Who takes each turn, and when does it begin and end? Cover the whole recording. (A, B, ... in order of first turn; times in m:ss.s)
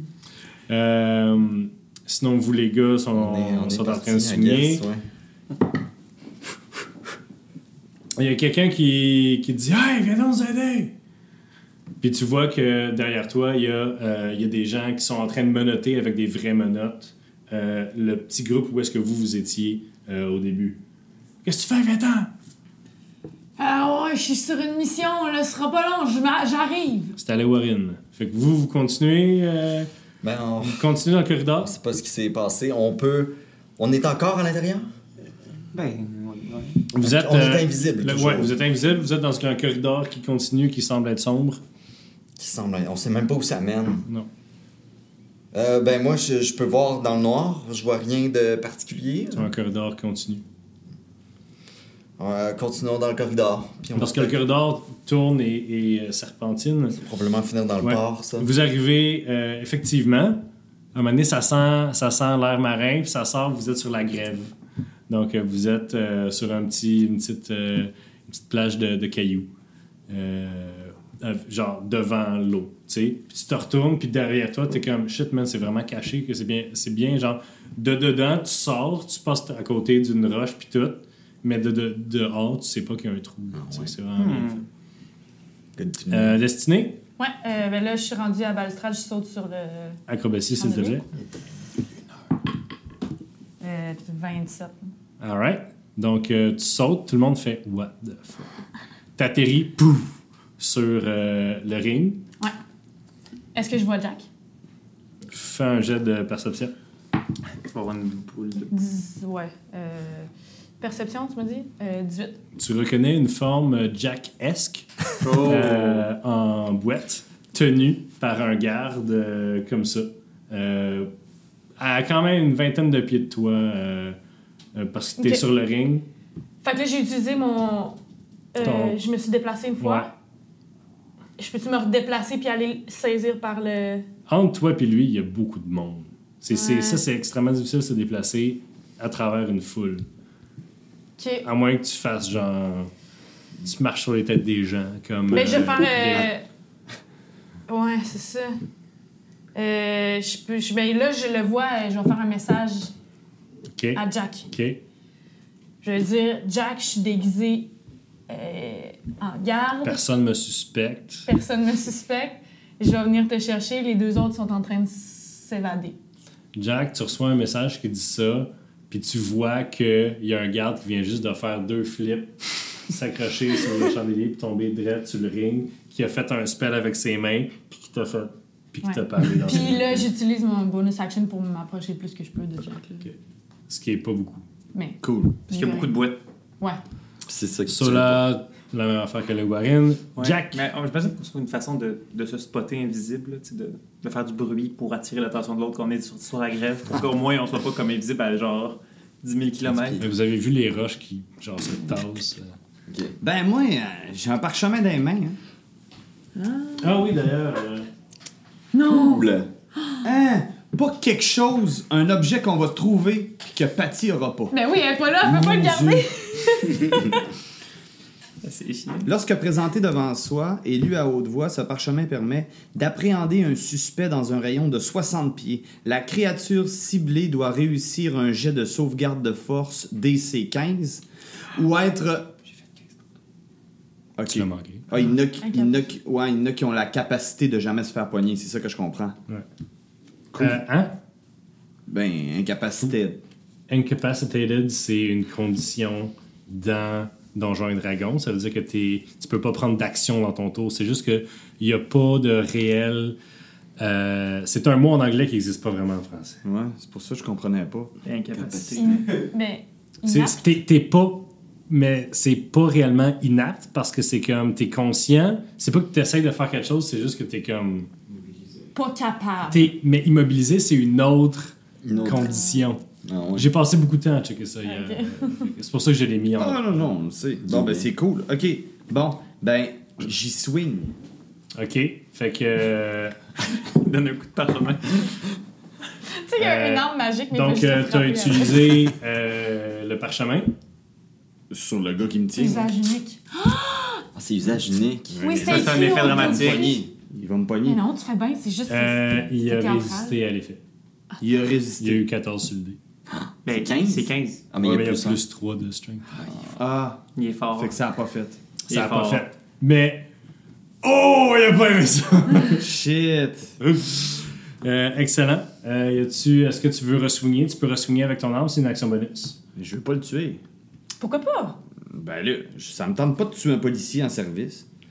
0:00.7-0:04.8 A
0:03.1-0:05.0 B
0:08.1-0:10.9 A
0:12.0-0:20.8 A
0:21.4-0:22.3 A
0:23.6-0:27.1 C
0:27.2-0:29.9 A
0:30.2-0:30.8 B
0:30.6-0:31.7 A
0:31.6-0:34.9 B
0:35.7-0:36.8 D
0:36.9-0:41.6 A
0:37.0-0:38.5 B
0:42.4-0:44.0 B
0:45.5-0:49.5 B
0:49.3-0:50.4 A
0:52.2-0:54.4 B
0:53.9-0:57.0 A
0:57.0-0:58.5 B
0:57.8-1:00.4 A
1:00.9-1:04.5 A
1:05.1-1:09.5 A
1:10.1-1:24.6 A
1:23.5-1:23.9 B
1:24.2-1:24.6 D
1:25.8-1:26.4 B
1:26.1-1:27.0 A
1:27.2-1:30.0 C
1:30.1-1:31.0 A
1:30.6-1:31.0 C
1:33.6-1:34.9 C
1:35.2-1:38.5 A
1:39.2-1:42.2 A
1:43.5-1:44.2 C
1:45.3-1:46.7 A
1:47.7-1:48.7 D
1:48.7-1:50.3 C
1:50.8-1:52.4 C
1:52.6-2:01.1 A
1:55.2-1:56.0 E
1:55.5-1:55.7 D
2:01.8-2:04.2 A
2:04.7-2:06.0 A
2:05.2-2:05.4 C
2:06.6-2:08.0 C
2:08.5-2:10.1 C
2:08.6-2:09.0 A
2:09.8-2:10.1 A
2:11.4-2:14.1 C
2:14.3-2:20.0 A
2:16.5-2:17.0 C
2:21.2-2:21.5 C
2:21.4-2:22.9 A
2:23.6-2:26.3 A
2:25.3-2:26.4 C
2:27.7-2:28.6 C
2:29.5-2:32.9 C
2:33.8-2:34.8 A
2:33.9-2:34.5 C
2:35.8-2:37.7 C
2:38.3-2:40.0 C
2:39.8-2:41.3 A
2:41.3-2:46.0 C
2:46.6-3:00.0 A
2:58.8-3:03.1 C
3:03.7-3:04.4 A
3:04.7-3:06.0 C
3:05.0-3:05.4 E
3:05.5-3:06.2 D
3:07.3-3:08.2 B
3:07.7-3:10.6 A
3:10.2-3:20.0 D
3:19.7-3:20.0 B
3:20.0-3:22.5 A
3:22.9-3:23.1 B
3:23.2-3:25.4 E
3:26.4-3:27.0 C
3:26.8-3:27.9 A
3:28.7-3:30.0 C
3:28.9-3:29.5 B
3:30.0-3:34.5 E
3:34.5-3:37.2 C
3:35.2-3:36.1 E
3:38.4-3:39.1 D
3:39.0-3:52.3 E
3:54.2-3:59.2 E
3:54.3-3:54.9 A
3:55.4-3:55.9 C
4:00.4-4:00.9 A
4:01.9-4:03.2 E
4:03.7-4:13.2 A
4:13.8-4:16.4 A
4:16.4-4:17.9 E
4:18.0-4:19.0 D
4:18.3-4:19.0 B
4:18.7-4:20.5 C
4:20.0-4:27.9 A
4:28.7-4:29.7 C
4:29.5-4:32.8 A
4:31.8-4:32.3 B
4:31.9-4:32.6 C
4:33.0-4:33.5 B
4:33.3-4:36.9 A
4:34.6-4:35.5 C
4:36.4-4:40.9 E
4:37.4-4:37.9 B
4:41.6-4:43.2 A
4:43.5-4:45.2 D
4:46.1-4:48.9 C
4:46.4-4:50.5 A
4:51.5-4:52.7 E
4:52.3-4:54.0 C
4:54.1-4:55.4 B
4:55.1-4:57.8 E
4:55.2-4:56.8 C
4:55.4-4:56.8 D
4:57.6-5:00.2 C
4:58.7-5:00.6 A
5:01.2-5:02.0 E
5:01.8-5:02.8 A
5:03.1-5:05.2 B
5:03.4-5:04.4 D
5:04.6-5:06.0 A
5:06.1-5:06.5 B
5:06.5-5:07.0 E
5:07.1-5:07.8 D
5:07.6-5:08.4 E
5:08.7-5:09.2 D
5:08.7-5:10.1 A
5:10.8-5:12.6 A
5:12.5-5:13.5 E
5:13.7-5:19.4 A
5:19.6-5:20.4 E
5:21.0-5:21.6 C
5:21.9-5:24.6 E